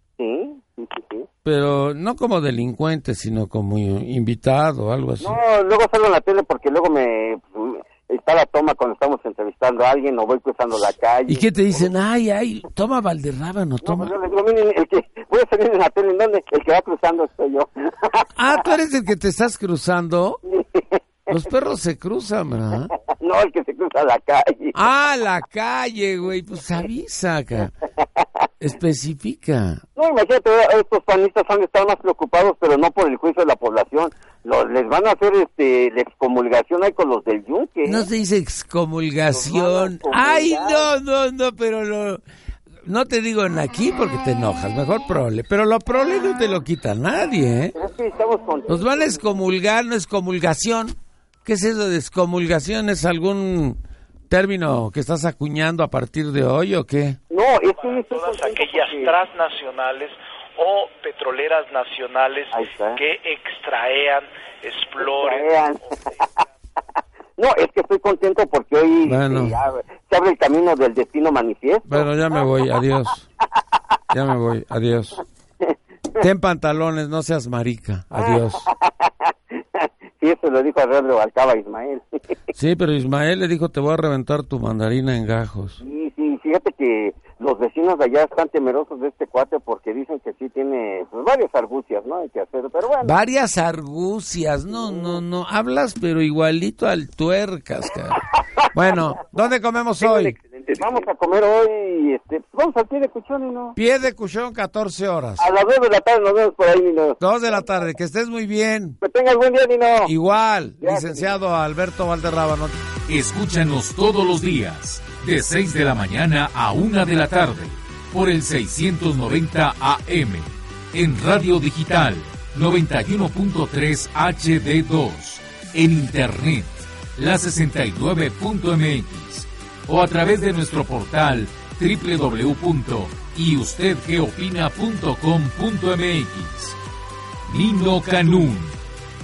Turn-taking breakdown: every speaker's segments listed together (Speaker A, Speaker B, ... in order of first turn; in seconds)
Speaker A: 0.2-1.3, 5.2-11.9, 13.8-18.7, 20.4-21.3, 23.0-24.9, 28.0-28.4, 29.9-38.1, 39.3-40.9, 47.7-49.4, 57.3-59.1, 62.5-63.0, 65.0-66.2, 67.4-72.7, 75.6-76.2, 78.1-82.2, 85.8-93.1, 94.7-95.2, 98.3-98.7, 100.0-103.8, 105.4-107.2, 109.0-110.1, 110.8-111.4
Speaker B: 1.4-5.4, 11.3-14.1, 18.4-20.4, 21.3-22.9, 24.7-27.7, 28.6-29.8, 37.8-42.2, 42.8-47.7, 48.7-53.8, 54.3-57.2, 69.0-69.6, 71.9-73.2, 74.1-75.2, 76.2-78.7, 82.5-85.8, 93.0-98.2, 98.7-100.4, 103.8-105.5, 107.2-109.0, 110.0-112.8
Speaker C: 57.8-66.0
Speaker D: 113.1-136.8, 137.4-138.8